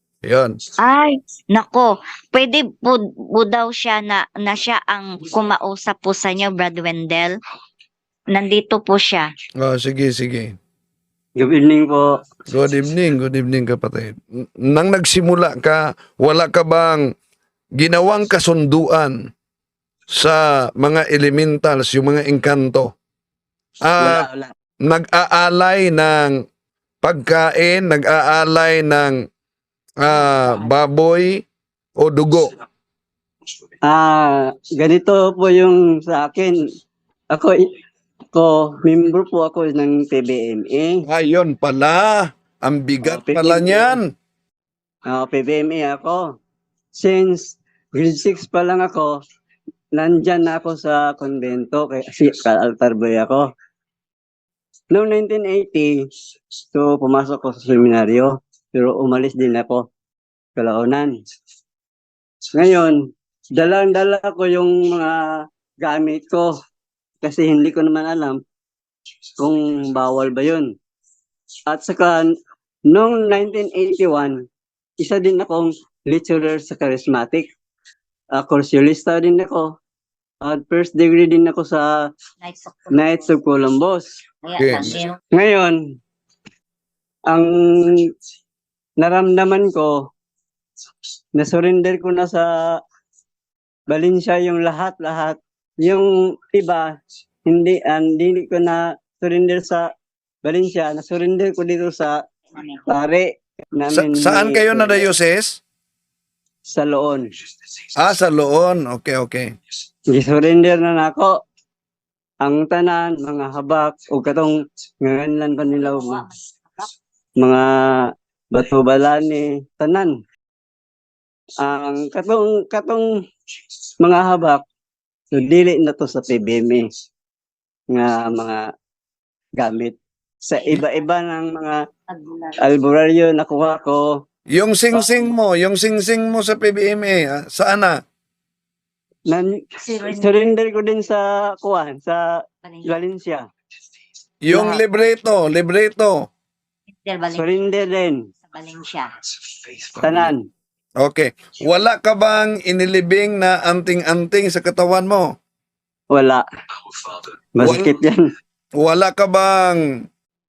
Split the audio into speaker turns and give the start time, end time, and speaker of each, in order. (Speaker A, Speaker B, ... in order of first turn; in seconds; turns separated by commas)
Speaker A: 0.3-0.6, Speaker B: 0.8-7.3, Speaker B: 8.3-9.3, Speaker A: 9.6-10.6, Speaker C: 11.4-12.1, Speaker A: 12.5-17.1, Speaker A: 17.8-19.2, Speaker A: 20.1-22.9, Speaker A: 23.9-24.2, Speaker C: 24.0-24.5, Speaker A: 24.9-26.4, Speaker A: 27.0-29.2, Speaker A: 30.0-31.4, Speaker A: 32.0-32.5, Speaker C: 33.9-36.6, Speaker C: 37.3-37.6, Speaker C: 38.3-41.0, Speaker A: 41.1-44.1, Speaker C: 43.0-44.0, Speaker C: 45.1-46.2, Speaker C: 47.0-49.1, Speaker C: 50.0-53.5, Speaker C: 54.9-56.0, Speaker C: 56.7-59.8, Speaker C: 60.6-61.1, Speaker C: 62.5-63.0, Speaker C: 63.6-65.2, Speaker C: 65.8-66.5, Speaker C: 67.2-68.4, Speaker C: 69.4-70.7, Speaker C: 71.7-72.3, Speaker C: 72.9-74.4, Speaker C: 75.0-77.5, Speaker C: 78.4-79.7, Speaker C: 80.4-81.9, Speaker B: 82.4-83.3, Speaker C: 82.9-84.1, Speaker B: 84.5-85.2, Speaker A: 84.6-84.9, Speaker C: 85.3-85.8, Speaker C: 87.3-88.0, Speaker C: 89.0-90.0, Speaker C: 91.4-92.5, Speaker C: 93.9-96.9, Speaker C: 97.5-99.9, Speaker C: 100.4-102.2, Speaker B: 102.5-102.9, Speaker C: 102.9-105.0, Speaker A: 103.9-105.6, Speaker C: 106.7-107.3, Speaker A: 108.0-109.5, Speaker C: 110.1-111.3, Speaker C: 112.4-116.2, Speaker B: 115.7-116.9, Speaker C: 117.4-117.7, Speaker C: 118.5-120.1, Speaker C: 121.6-123.1, Speaker C: 124.0-124.6, Speaker C: 125.3-126.9, Speaker C: 127.9-128.6, Speaker C: 129.6-131.8, Speaker B: 130.6-130.8, Speaker B: 132.1-132.7, Speaker C: 132.6-134.1, Speaker A: 134.5-138.0, Speaker C: 139.3-142.2, Speaker B: 139.8-140.5, Speaker B: 142.7-142.9, Speaker C: 142.9-143.4, Speaker A: 144.4-146.2, Speaker B: 144.5-144.8, Speaker B: 146.9-147.6, Speaker C: 147.4-148.2, Speaker B: 148.5-149.1, Speaker C: 150.0-150.4, Speaker A: 150.0-150.3, Speaker A: 151.0-155.3, Speaker C: 156.1-156.4, Speaker C: 157.0-158.2, Speaker A: 157.6-157.9, Speaker A: 158.8-159.8